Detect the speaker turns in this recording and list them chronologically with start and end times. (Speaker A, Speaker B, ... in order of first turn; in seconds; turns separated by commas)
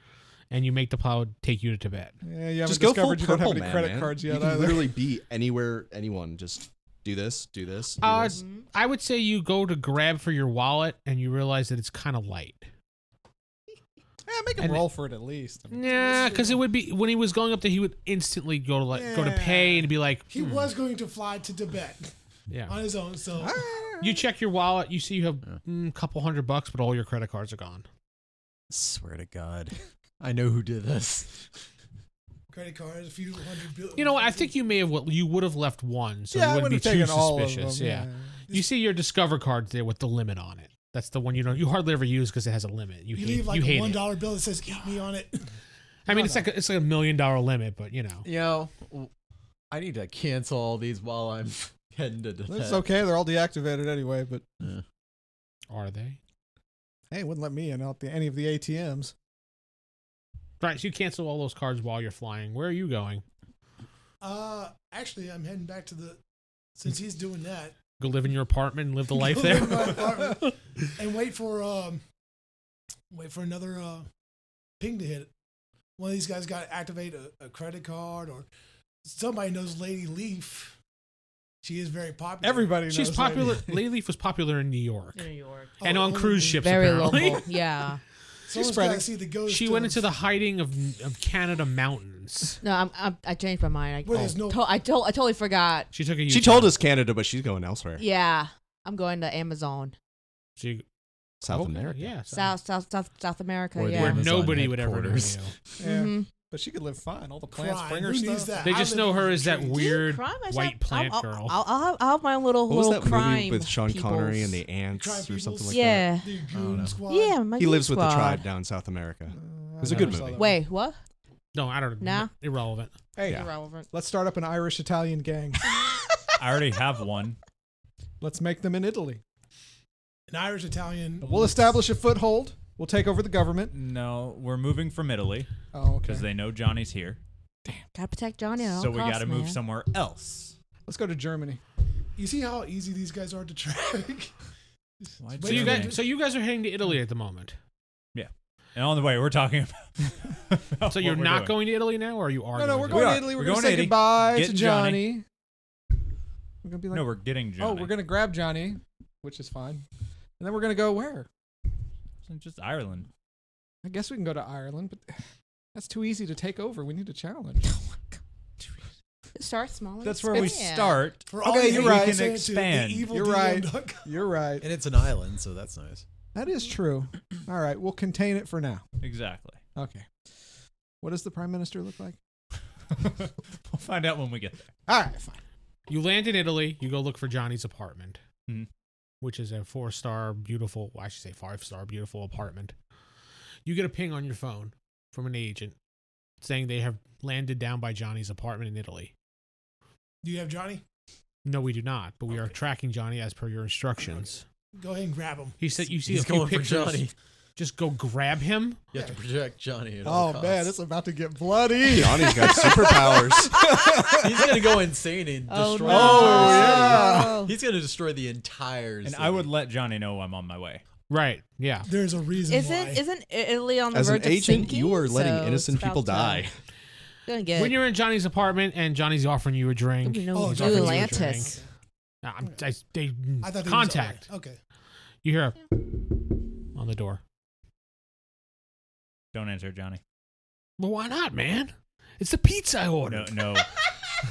Speaker A: 0.5-2.1, Speaker B: 2.2-5.0, Speaker C: 2.6-8.4, Speaker A: 8.0-12.7, Speaker B: 14.2-16.6, Speaker A: 14.6-14.9, Speaker A: 15.7-20.7, Speaker B: 18.9-19.9, Speaker D: 20.3-22.1, Speaker A: 22.5-22.8, Speaker D: 22.7-23.6, Speaker B: 23.4-24.2, Speaker A: 24.0-27.9, Speaker E: 28.7-31.5, Speaker D: 32.5-34.5, Speaker A: 34.0-44.0, Speaker B: 36.3-38.3, Speaker D: 43.1-45.5, Speaker A: 46.0-48.3, Speaker D: 46.1-46.4, Speaker E: 48.2-49.1, Speaker E: 49.7-52.9, Speaker B: 52.5-54.4, Speaker A: 55.7-56.2, Speaker B: 57.1-59.1, Speaker A: 60.6-63.2, Speaker D: 64.2-66.2, Speaker D: 66.7-67.8, Speaker A: 68.0-70.3, Speaker D: 69.1-72.0, Speaker D: 73.1-74.1, Speaker D: 74.8-75.3, Speaker D: 76.0-78.5, Speaker D: 79.0-80.8, Speaker D: 81.6-82.8, Speaker B: 82.4-83.8, Speaker A: 82.9-85.3, Speaker F: 85.1-85.8, Speaker A: 85.8-87.5, Speaker D: 85.8-86.5, Speaker F: 86.5-88.0, Speaker D: 88.5-90.0, Speaker B: 88.5-89.1, Speaker A: 89.5-92.6, Speaker F: 92.6-95.9, Speaker D: 94.0-94.7, Speaker A: 95.9-96.8, Speaker C: 96.3-98.0, Speaker F: 98.0-99.9, Speaker A: 100.6-100.8, Speaker C: 101.4-102.2, Speaker A: 101.5-102.5, Speaker F: 102.3-104.3, Speaker E: 103.8-105.4, Speaker A: 104.0-105.5, Speaker B: 105.8-108.7, Speaker F: 105.8-106.3, Speaker D: 107.5-109.9, Speaker A: 108.6-111.6, Speaker F: 109.7-114.6, Speaker C: 112.7-116.1, Speaker D: 114.9-117.5, Speaker F: 115.7-116.4, Speaker E: 116.5-117.0, Speaker F: 117.1-118.5, Speaker C: 117.6-120.4, Speaker B: 119.3-120.6, Speaker A: 119.9-120.2, Speaker F: 120.3-121.0, Speaker A: 121.5-122.9, Speaker F: 122.0-122.3, Speaker B: 123.2-125.7, Speaker F: 123.2-123.9, Speaker G: 126.4-127.4, Speaker B: 128.2-129.2, Speaker D: 130.3-131.6, Speaker B: 131.2-133.7, Speaker G: 133.7-135.5, Speaker B: 135.7-136.2, Speaker G: 136.0-137.2, Speaker F: 137.9-139.6, Speaker G: 138.6-140.5, Speaker B: 140.8-141.6, Speaker D: 142.2-144.3, Speaker D: 145.0-146.0, Speaker G: 145.2-145.9, Speaker A: 145.4-147.6, Speaker G: 148.1-151.5, Speaker A: 150.9-153.3, Speaker B: 152.5-155.2, Speaker G: 152.9-155.1, Speaker B: 156.6-159.8, Speaker G: 156.9-158.0, Speaker B: 160.4-161.3, Speaker G: 162.2-163.1, Speaker B: 163.8-165.2, Speaker B: 165.7-167.6, Speaker F: 169.3-171.1, Speaker G: 170.0-173.1, Speaker D: 171.2-174.1, Speaker B: 171.4-172.3, Speaker B: 173.1-174.7, Speaker E: 174.6-176.0, Speaker B: 176.3-178.8, Speaker G: 179.0-179.6, Speaker B: 179.8-180.1, Speaker B: 181.0-182.2, Speaker G: 183.7-184.7, Speaker B: 184.9-185.4, Speaker A: 185.9-188.2, Speaker A: 189.2-192.7, Speaker A: 193.7-195.7, Speaker A: 196.4-199.1, Speaker D: 200.2-200.8, Speaker A: 201.4-204.4, Speaker D: 204.1-205.7, Speaker A: 205.6-208.8, Speaker E: 206.1-207.1, Speaker E: 208.9-210.7, Speaker B: 210.0-214.7, Speaker C: 211.9-213.6, Speaker F: 213.5-214.2, Speaker E: 214.1-219.5, Speaker F: 215.5-217.5, Speaker B: 215.8-217.4, Speaker G: 219.0-220.8, Speaker A: 221.1-221.9, Speaker D: 221.8-223.0, Speaker F: 222.5-226.5, Speaker C: 223.9-226.5, Speaker F: 227.2-227.8, Speaker A: 227.5-231.5, Speaker F: 230.0-231.6, Speaker D: 230.3-231.7, Speaker A: 232.2-234.3, Speaker D: 233.4-234.6, Speaker A: 235.2-235.8, Speaker A: 236.7-237.2, Speaker G: 239.3-240.0, Speaker A: 240.8-243.5, Speaker G: 243.1-243.7